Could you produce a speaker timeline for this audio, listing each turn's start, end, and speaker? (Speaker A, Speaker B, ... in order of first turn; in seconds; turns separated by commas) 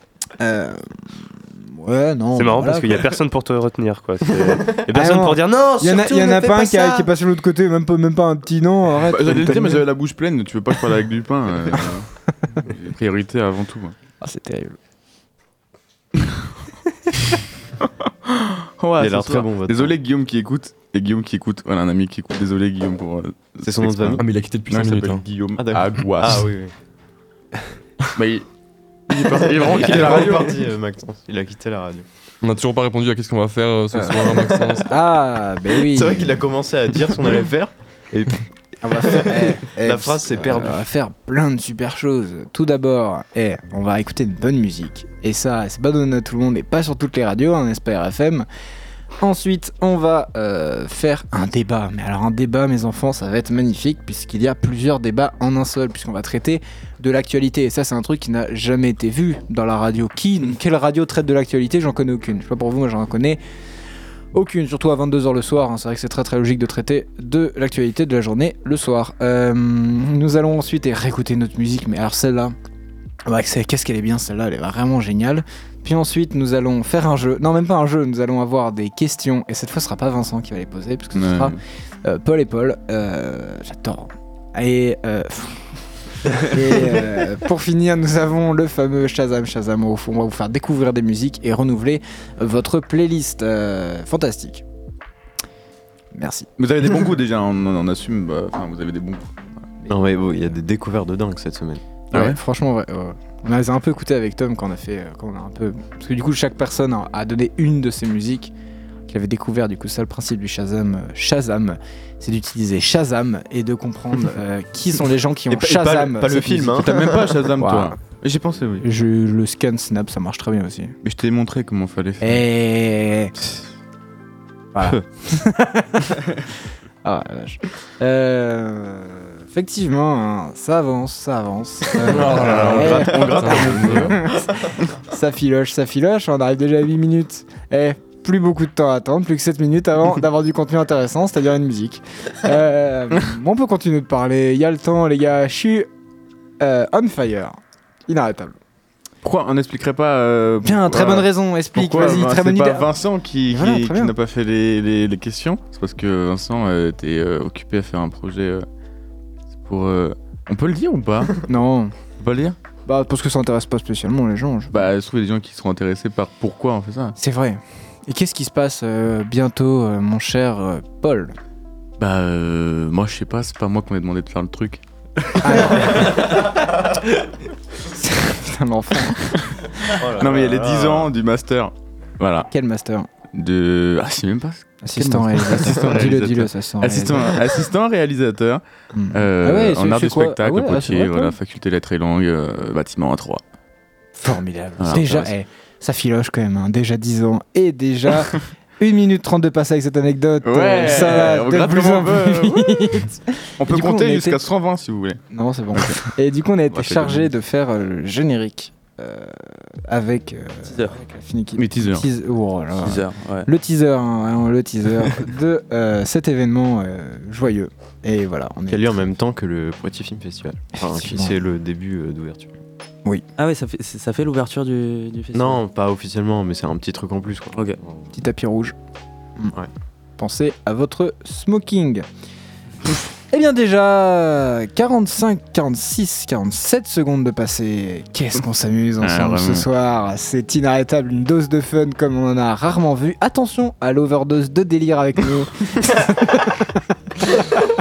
Speaker A: 0.4-3.1, Speaker B: 2.3-6.7, Speaker A: 4.9-9.9, Speaker C: 6.0-7.0, Speaker D: 9.0-14.0, Speaker A: 14.2-14.8, Speaker D: 18.1-26.5, Speaker E: 19.0-19.9, Speaker E: 23.6-24.2, Speaker F: 24.2-25.2, Speaker E: 25.6-26.7, Speaker D: 28.1-28.5, Speaker D: 29.1-30.7, Speaker E: 29.4-32.0, Speaker F: 32.4-34.9, Speaker A: 33.9-36.4, Speaker E: 35.8-40.8, Speaker A: 38.8-48.5, Speaker A: 49.2-63.4, Speaker A: 64.3-72.5, Speaker A: 73.3-94.6, Speaker D: 81.2-81.6, Speaker A: 96.1-96.5, Speaker D: 96.6-99.7, Speaker A: 99.9-100.4, Speaker E: 99.9-101.8, Speaker A: 102.1-108.5, Speaker D: 102.1-102.4, Speaker A: 109.1-118.0, Speaker E: 115.5-117.4, Speaker D: 116.8-118.9, Speaker A: 118.8-121.0, Speaker D: 121.0-122.4, Speaker A: 122.2-123.3, Speaker A: 124.7-126.2, Speaker A: 127.0-145.9, Speaker D: 132.0-134.1, Speaker E: 132.1-134.1, Speaker F: 133.2-134.2, Speaker A: 146.6-148.6, Speaker D: 149.2-158.7, Speaker A: 150.6-152.9, Speaker A: 153.5-154.2, Speaker D: 159.6-161.4, Speaker A: 161.4-161.9, Speaker D: 162.2-162.6, Speaker A: 162.9-164.9, Speaker D: 164.7-167.2, Speaker A: 167.2-171.3, Speaker D: 172.0-174.8, Speaker A: 175.4-176.5, Speaker A: 177.8-180.0, Speaker E: 180.0-181.1, Speaker D: 180.1-182.5, Speaker A: 182.5-183.1, Speaker D: 183.3-193.4, Speaker A: 184.8-187.4, Speaker A: 188.9-191.4, Speaker A: 194.2-204.5, Speaker D: 194.8-195.3, Speaker D: 200.4-203.1, Speaker D: 203.6-205.2, Speaker A: 205.3-218.9, Speaker D: 205.7-206.0, Speaker D: 206.7-207.2, Speaker C: 210.6-211.0, Speaker D: 211.6-212.1, Speaker C: 212.8-213.5, Speaker E: 218.7-222.5, Speaker A: 220.8-221.3, Speaker C: 223.4-225.6, Speaker E: 225.3-228.0, Speaker C: 227.5-227.8, Speaker A: 228.1-228.8, Speaker A: 230.2-232.1, Speaker A: 233.3-246.8, Speaker D: 239.0-239.7